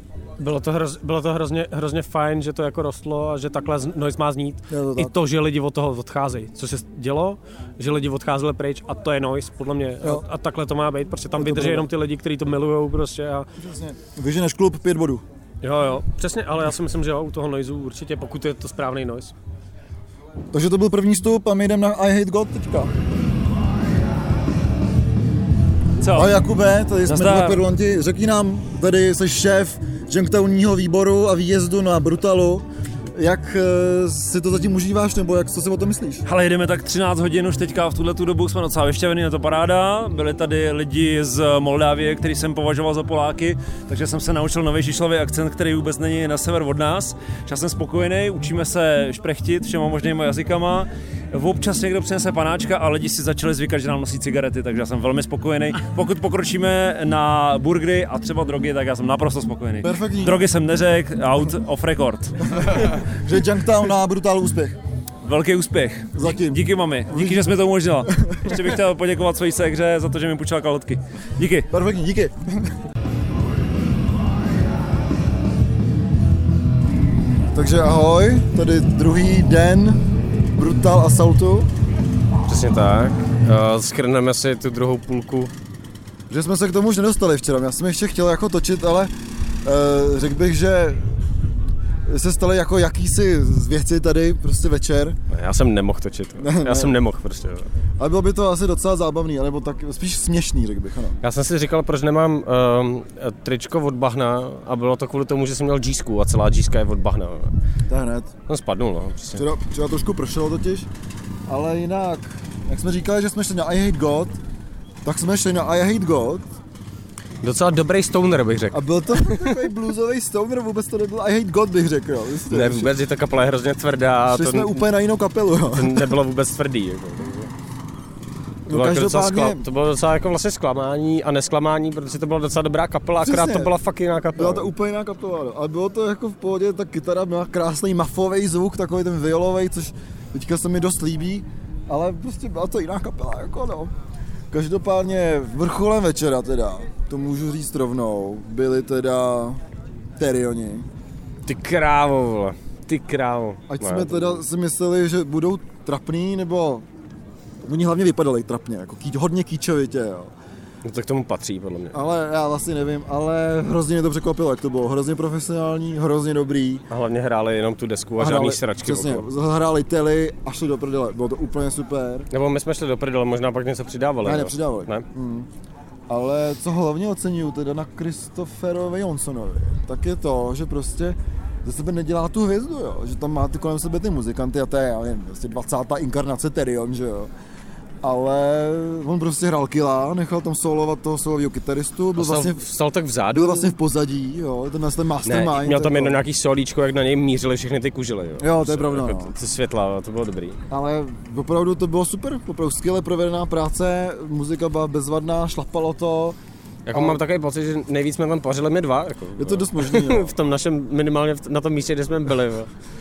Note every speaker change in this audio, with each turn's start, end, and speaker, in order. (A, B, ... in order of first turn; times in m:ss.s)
0:00.4-0:13.5 A
0:04.7-0:05.1 B
0:11.4-0:11.9 B
0:13.6-0:15.2 B
0:15.6-0:19.3 A
0:20.5-0:22.9 B
0:26.0-0:26.3 A
0:26.1-0:36.2 B
0:27.0-0:27.6 A
0:36.2-1:02.9 C
0:59.8-1:00.4 B
1:02.5-1:04.8 B
1:05.2-1:11.7 C
1:06.1-1:08.8 B
1:11.7-1:12.8 B
1:17.5-1:21.7 B
1:22.5-1:25.5 A
1:26.3-1:31.2 B
1:32.0-1:35.2 B
1:35.3-1:37.7 A
1:36.4-1:37.0 B
1:38.0-1:41.2 B
1:41.2-1:47.5 A
1:47.9-1:48.3 B
1:48.5-1:49.4 A
1:49.3-1:50.9 B
1:51.5-1:54.4 B
1:55.0-1:56.5 B
1:57.4-1:59.5 A
1:58.7-2:02.9 B
2:02.5-2:04.7 A
2:04.2-2:06.1 B
2:05.7-2:07.5 A
2:08.6-2:09.6 B
2:08.7-2:14.7 A
2:13.2-2:13.8 B
2:14.3-2:23.9 B
2:24.5-2:29.6 B
2:30.2-2:30.9 B
2:31.4-2:34.4 A
2:33.7-2:36.8 B
2:37.6-2:40.3 B
2:40.8-2:42.0 A
2:41.9-2:46.8 B
2:46.9-2:49.3 A
2:48.2-2:52.3 B
2:52.3-2:55.0 A
2:54.2-2:55.5 B
2:56.1-3:07.3 B
3:08.0-3:12.6 B
3:12.2-3:13.7 A
3:13.3-3:16.2 B
3:15.2-3:20.6 A
3:18.4-3:19.3 B
3:20.7-3:26.4 B
3:26.8-3:32.7 A
3:26.9-3:27.2 B
3:29.4-3:30.3 B